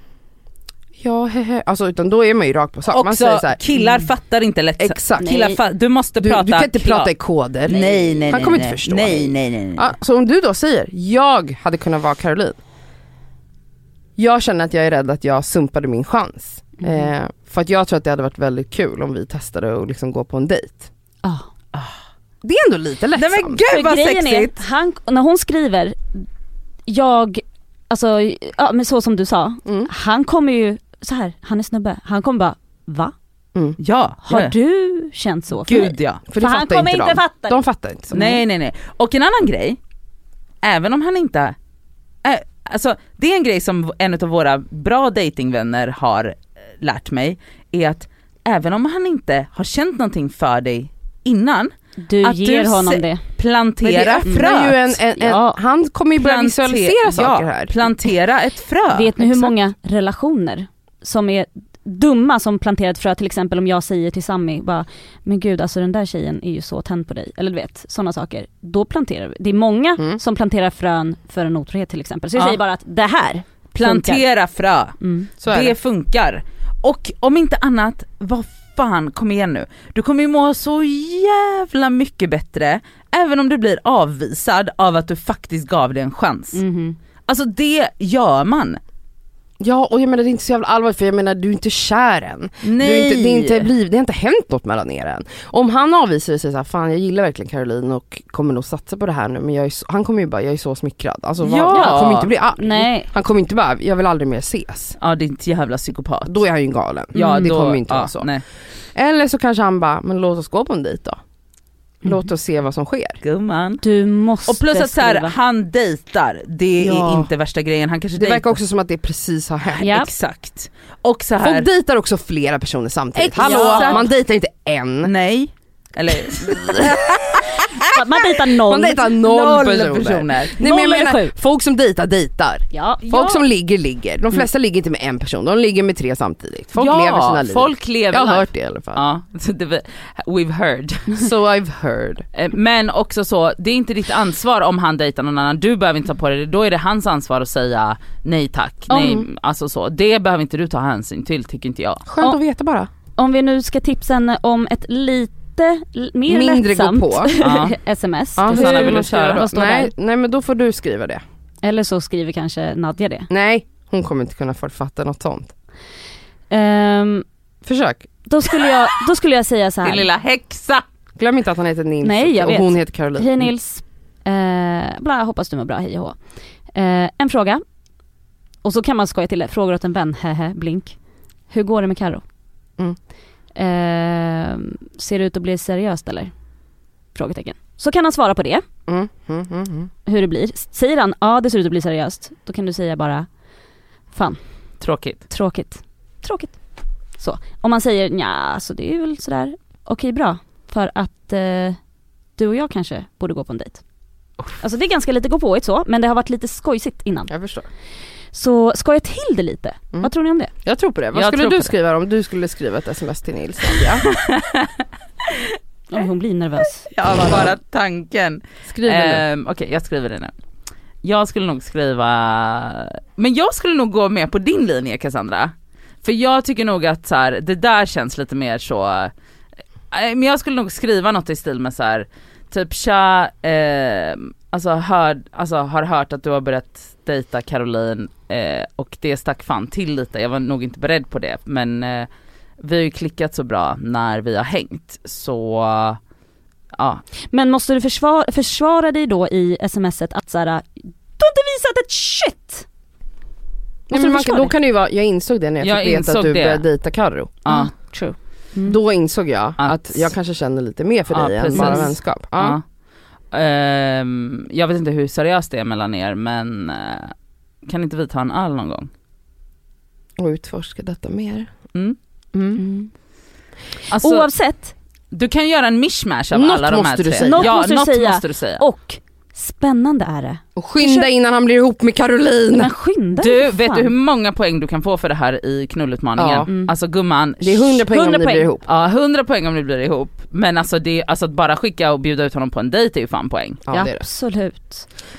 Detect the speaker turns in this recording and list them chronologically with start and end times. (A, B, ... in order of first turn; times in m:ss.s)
0:01.0-0:03.6 A
0:02.9-0:07.1 B
0:03.8-0:04.1 C
0:04.8-0:05.4 A
0:05.2-0:05.6 C
0:06.2-0:12.6 A
0:07.7-0:09.9 B
0:14.2-0:20.9 A
0:22.4-0:23.6 A
0:23.2-0:24.6 B
0:23.7-0:26.0 C
0:26.9-0:33.1 C
0:29.6-0:29.9 A
0:33.8-0:34.6 B
0:34.3-0:38.4 C
0:35.5-0:36.2 B
0:36.3-0:38.3 A
0:38.1-0:39.8 B
0:40.6-0:41.6 B
0:42.2-0:55.0 B
0:52.0-0:53.2 C
0:53.8-0:57.8 A
0:54.3-0:54.5 C
0:55.2-0:55.6 C
0:56.2-0:59.2 B
0:58.9-1:14.2 C
1:12.4-1:12.6 B
1:13.8-1:26.6 B
1:15.0-1:15.3 C
1:15.4-1:15.8 A
1:26.5-1:27.0 C
1:27.3-1:28.8 B
1:29.6-1:45.0 A
1:32.6-1:33.7 B
1:41.4-1:42.3 B
1:41.7-1:43.1 C
1:45.0-1:46.4 B
1:46.2-1:48.3 A
1:47.1-1:48.4 B
1:47.2-1:47.5 C
1:49.0-1:51.2 A
1:52.0-1:53.2 A
1:53.2-1:53.8 B
1:53.8-1:55.4 C
1:54.5-1:58.6 B
1:56.8-1:57.3 A
1:58.2-1:59.9 A
1:59.8-2:01.7 B
1:59.8-2:00.1 C
2:01.4-2:05.1 A
2:03.2-2:04.1 B
2:03.4-2:04.1 C
2:05.0-2:07.7 B
2:07.9-2:09.2 C
2:08.6-2:19.0 A
2:09.1-2:10.6 B
2:10.6-2:11.3 C
2:12.7-2:13.3 C
2:13.0-2:13.4 B
2:16.8-2:21.3 B
2:21.2-2:22.3 A
2:22.3-2:32.0 B
2:28.9-2:29.3 A
2:32.1-2:32.9 A
2:33.2-2:39.9 C
2:36.3-2:37.3 A
2:37.4-2:37.8 B
2:38.4-2:41.2 A
2:38.5-2:39.4 B
2:41.6-2:43.3 C
2:43.3-2:45.5 A
2:46.5-2:47.2 C
2:47.6-2:48.1 A
2:48.3-2:50.1 C
2:49.8-2:50.8 B
2:51.2-2:53.5 A
2:52.0-2:56.2 C
2:56.7-2:57.6 C
2:58.6-3:01.0 C
3:01.5-3:02.2 C
3:03.6-3:06.3 C
3:07.2-3:08.6 C
3:08.9-3:09.9 A
3:10.1-3:13.3 C
3:14.1-3:14.4 C
3:14.8-3:15.2 B
3:15.3-3:16.6 C
3:17.2-3:21.8 C
3:22.4-3:23.8 C
3:24.6-3:27.3 C
3:27.3-3:27.7 A
3:28.3-3:30.5 C
3:30.6-3:34.1 A
3:31.1-3:31.7 B
3:34.0-3:35.6 B
3:35.9-3:37.6 C
3:36.9-3:40.4 B
3:38.7-3:39.2 A
3:41.0-3:49.1 B
3:49.9-4:02.1 B
4:02.6-4:06.0 B
4:06.8-4:07.0 B
4:07.3-4:12.7 C
4:13.9-4:17.4 A
4:13.9-4:14.5 C
4:15.6-4:16.7 B
4:17.4-4:17.7 B
4:17.5-4:18.8 C
4:18.6-4:22.6 A
4:19.6-4:20.1 B
4:21.1-4:22.6 B
4:21.6-4:21.9 C
4:23.3-4:27.1 B
4:27.6-4:28.9 B
4:30.2-4:31.5 A
4:32.3-4:32.6 A
4:32.6-4:32.9 C
4:33.9-4:34.3 B
4:33.9-4:34.7 C
4:35.1-4:38.6 B
4:36.3-4:37.6 A
4:37.2-4:41.1 C
4:40.6-4:42.7 A
4:42.5-4:43.9 C
4:43.2-4:47.8 B
4:46.2-4:46.5 A
4:46.5-4:46.7 C
4:47.4-4:48.7 A
4:47.8-4:48.5 C
4:48.6-4:53.6 B
4:53.7-4:54.1 A
4:53.7-4:54.9 C